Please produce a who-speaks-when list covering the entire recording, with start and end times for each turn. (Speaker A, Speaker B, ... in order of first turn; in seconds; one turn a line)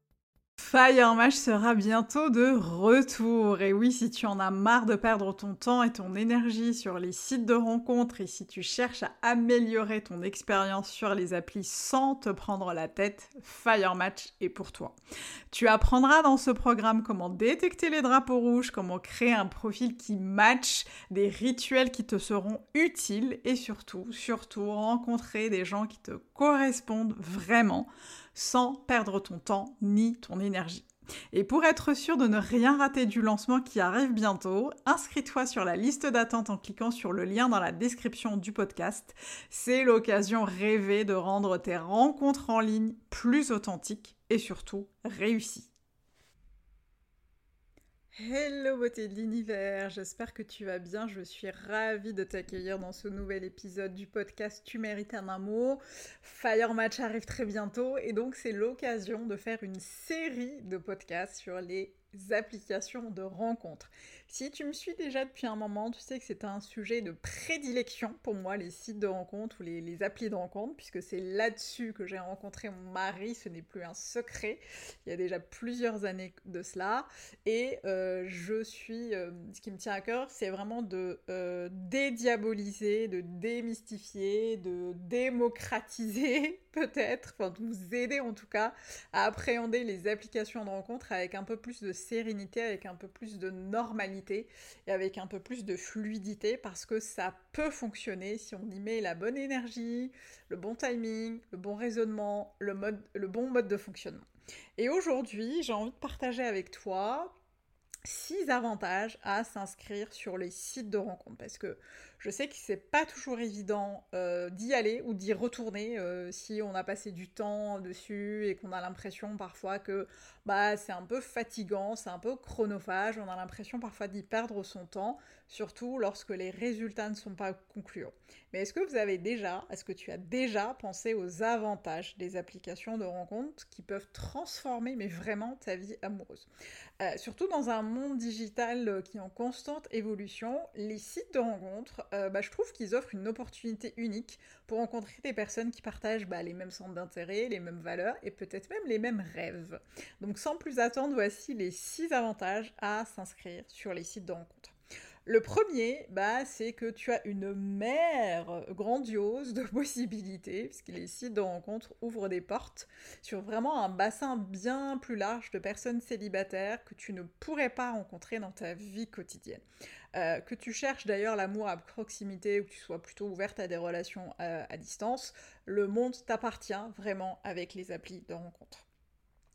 Speaker A: 0.6-15.0
Speaker A: 15.5-45.7
Speaker A: 48.1-104.2
Speaker A: 104.8-107.3
Speaker A: 108.0-136.5
Speaker A: 137.0-154.7
Speaker A: 155.2-169.6
Speaker A: 170.1-178.8